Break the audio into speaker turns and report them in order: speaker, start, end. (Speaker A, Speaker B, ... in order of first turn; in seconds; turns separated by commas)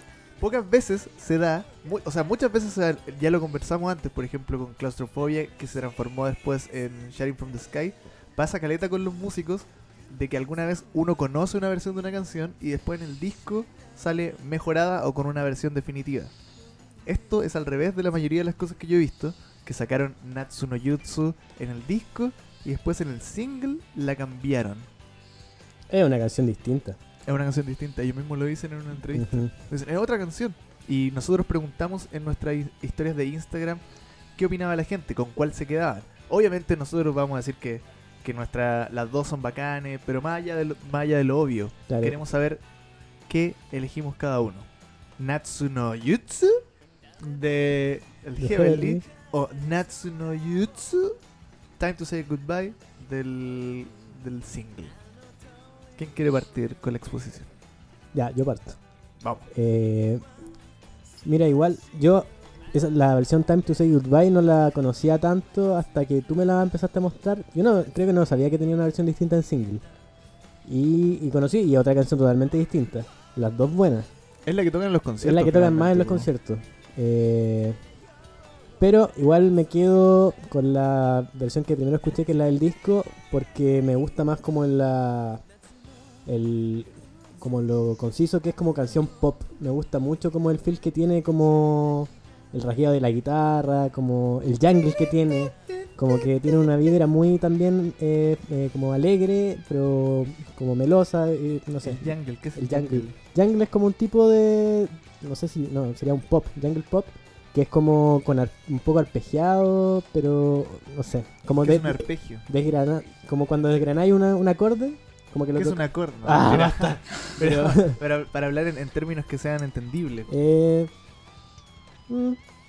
Speaker A: 0.4-16.3, Speaker A: 17.1-24.9, Speaker B: 25.9-27.0, Speaker A: 27.3-33.8, Speaker B: 29.1-29.5, Speaker A: 34.4-42.6, Speaker B: 41.9-42.2, Speaker A: 43.3-46.6, Speaker A: 47.2-51.2, Speaker B: 48.4-49.0, Speaker A: 51.8-55.0, Speaker A: 56.0-57.5, Speaker B: 58.1-58.8, Speaker A: 59.2-59.5, Speaker B: 59.5-60.2, Speaker B: 61.2-69.8, Speaker B: 70.6-74.1, Speaker A: 74.5-76.3, Speaker B: 75.2-77.8, Speaker B: 78.8-85.4, Speaker B: 86.3-118.0, Speaker A: 95.7-96.2, Speaker A: 101.8-103.2, Speaker A: 111.6-112.5, Speaker A: 115.5-120.3, Speaker B: 120.3-120.9, Speaker B: 122.1-122.5